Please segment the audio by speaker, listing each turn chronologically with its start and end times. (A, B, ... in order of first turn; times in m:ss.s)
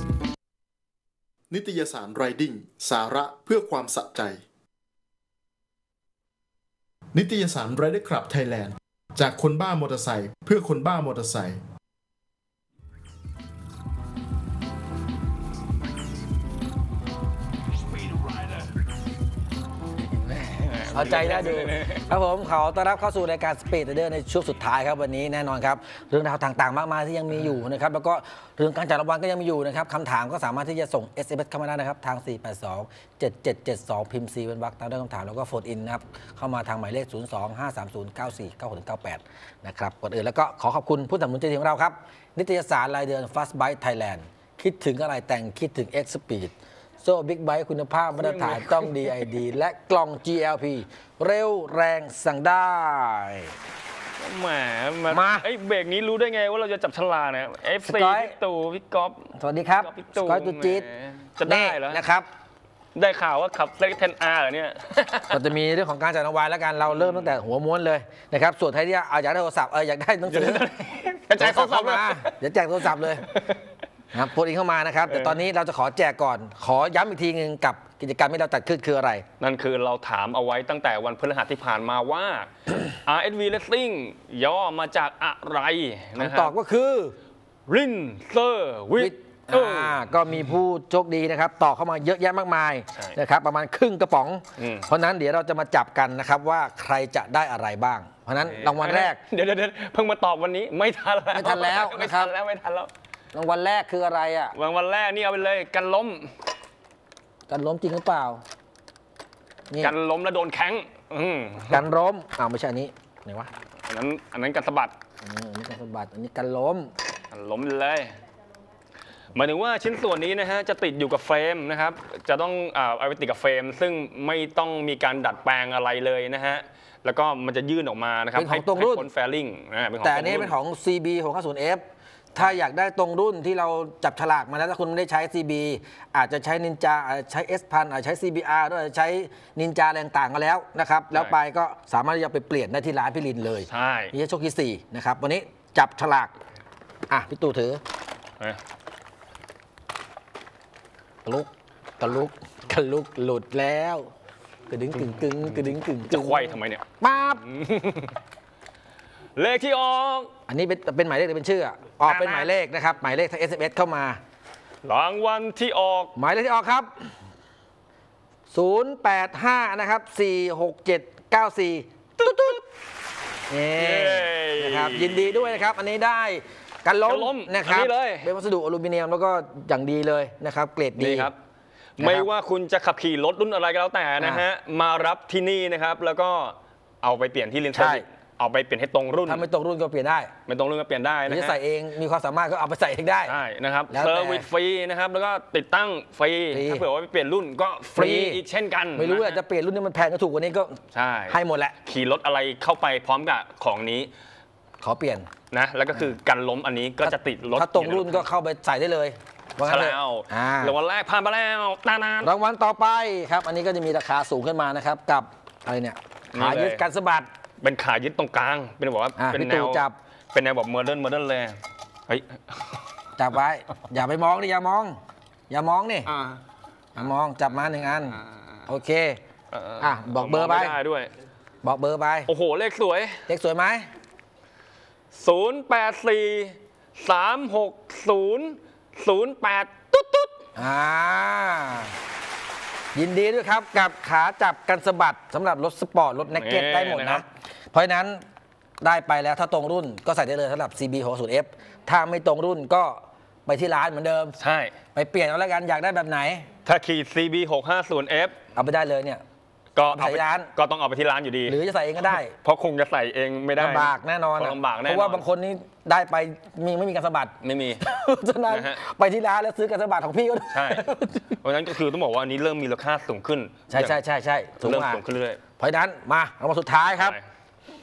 0:01.5-0:04.4 A
0:07.1-0:11.6 A
0:18.1-0:18.5 B
0:20.0-0:22.0 B
0:20.9-0:53.5 C
0:48.1-0:49.3 B
0:54.2-0:59.2 B
0:55.1-0:55.4 C
0:57.8-0:58.3 C
0:59.4-1:00.8 C
0:59.8-1:02.0 B
1:01.4-1:02.3 C
1:02.9-1:05.4 B
1:05.3-1:10.7 C
1:06.9-1:07.3 B
1:10.3-1:12.3 B
1:11.4-1:13.3 C
1:12.9-1:13.4 B
1:14.1-1:19.2 C
1:15.1-1:15.4 B
1:19.4-1:26.5 B
1:26.2-1:27.2 C
1:27.7-1:30.1 B
1:29.0-1:39.2 C
1:34.6-1:34.9 B
1:38.4-1:42.9 B
1:41.3-1:42.3 C
1:43.3-1:44.6 C
1:44.5-1:46.3 B
1:47.5-1:48.4 C
1:49.8-1:51.8 B
1:51.7-1:53.5 C
1:53.8-1:54.9 B
1:55.2-1:56.9 C
1:57.3-1:58.2 B
1:59.3-2:10.5 B
2:08.3-2:09.1 C
2:10.0-2:11.8 C
2:12.3-2:26.3 C
2:23.7-2:24.1 B
2:27.1-2:27.8 C
2:32.0-2:34.1 C
2:34.7-2:37.4 C
2:34.9-2:38.2 B
2:39.4-2:40.3 B
2:40.5-2:44.2 C
2:42.0-2:42.5 B
2:44.8-2:46.1 B
2:46.2-2:47.1 C
2:48.5-2:52.6 C
2:52.2-2:52.6 B
2:53.5-3:01.3 C
2:53.7-2:55.6 B
2:57.0-2:58.3 B
3:01.0-3:01.3 B
3:02.0-3:09.4 B
3:02.0-3:02.3 C
3:04.2-3:04.4 C
3:07.7-3:08.0 C
3:09.2-3:10.3 C
3:10.5-3:11.6 B
3:11.3-3:13.3 C
3:13.2-3:19.4 B
3:13.9-3:14.4 C
3:16.5-3:16.9 C
3:17.9-3:18.4 C
3:18.9-3:20.8 C
3:20.9-3:24.1 B
3:21.3-3:21.8 C
3:24.8-3:25.3 C
3:25.5-3:28.3 B
3:27.0-3:30.7 C
3:29.6-3:32.3 B
3:32.2-3:37.3 C
3:36.3-3:36.8 B
3:37.6-3:41.6 B
3:39.2-3:39.9 C
3:42.1-3:42.8 B
3:43.2-3:45.0 C
3:45.5-3:46.1 C
3:46.0-3:46.4 B
3:47.0-3:49.2 C
3:48.1-3:48.6 B
3:49.5-3:51.1 B
3:49.8-3:50.8 C
3:51.6-3:52.3 C
3:52.3-3:53.2 B
3:53.3-3:53.9 C
3:55.1-4:00.4 B
4:00.6-4:02.0 C
4:02.9-4:08.2 C
4:06.3-4:07.2 B
4:08.8-4:14.4 C
4:14.4-4:14.7 B
4:14.9-4:16.4 C
4:16.6-4:18.4 B
4:18.5-4:19.2 C
4:19.8-4:25.2 B
4:19.9-4:20.5 C
4:21.5-4:22.3 C
4:23.6-4:31.4 C
4:27.4-4:27.8 B
4:28.5-4:28.8 B
4:30.5-4:34.0 B
4:33.7-4:35.0 C
4:34.6-4:35.4 B
4:35.6-4:37.2 C
4:36.9-4:37.2 B